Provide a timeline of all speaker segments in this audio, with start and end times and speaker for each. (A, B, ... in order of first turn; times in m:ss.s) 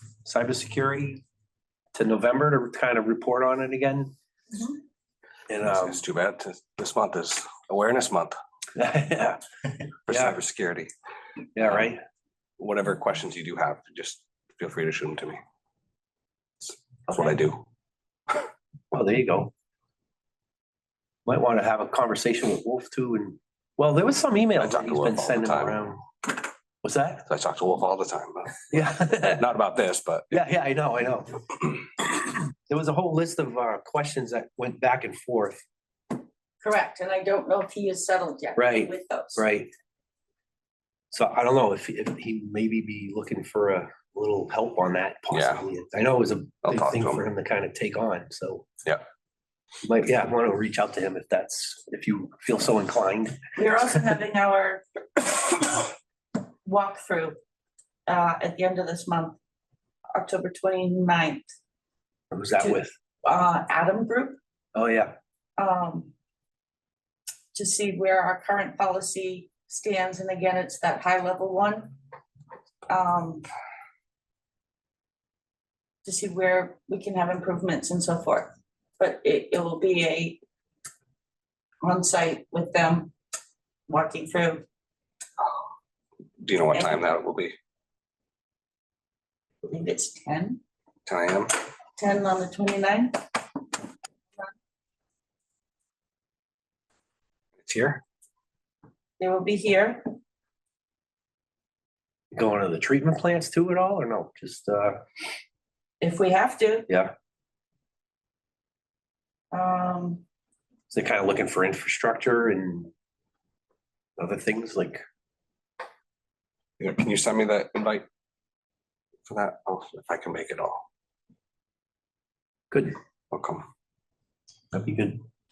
0:00.2-0:01.2 A
0:01.9-0:04.1 A
0:05.5-0:06.0 A
0:05.6-0:08.4 B
0:08.7-0:09.4 A
0:10.1-0:10.9 B
0:10.1-0:10.4 A
0:11.5-0:12.0 A
0:12.6-0:15.4 B
0:17.1-0:17.6 B
0:18.9-0:19.5 A
0:21.2-0:27.3 A
0:24.6-0:25.8 B
0:27.3-0:30.4 B
0:28.7-0:29.4 A
0:30.3-0:35.6 A
0:36.6-0:39.4 C
0:38.6-0:39.7 A
0:41.1-0:48.7 A
0:45.3-0:45.6 B
0:46.6-0:47.2 B
0:49.8-0:53.4 A
0:53.6-0:55.9 C
0:56.6-0:57.4 C
0:58.1-0:59.4 C
1:00.1-1:01.4 C
1:02.3-1:02.9 A
1:02.6-1:04.4 C
1:04.7-1:05.1 A
1:05.6-1:06.1 C
1:07.5-1:12.0 C
1:12.9-1:13.5 C
1:16.0-1:20.4 C
1:21.8-1:23.1 C
1:23.9-1:24.6 C
1:26.4-1:27.6 B
1:26.7-1:27.1 C
1:29.6-1:30.6 C
1:31.0-1:31.5 B
1:32.0-1:33.2 C
1:37.6-1:38.0 B
1:39.2-1:40.1 C
1:42.3-1:45.0 A
1:46.0-1:46.9 C
1:49.5-1:50.2 C
1:50.9-1:52.9 A
1:54.2-1:55.0 A
1:56.8-1:58.0 B
1:59.3-2:00.8 B
2:02.7-2:03.0 A
2:03.3-2:03.6 B
2:04.7-2:05.2 A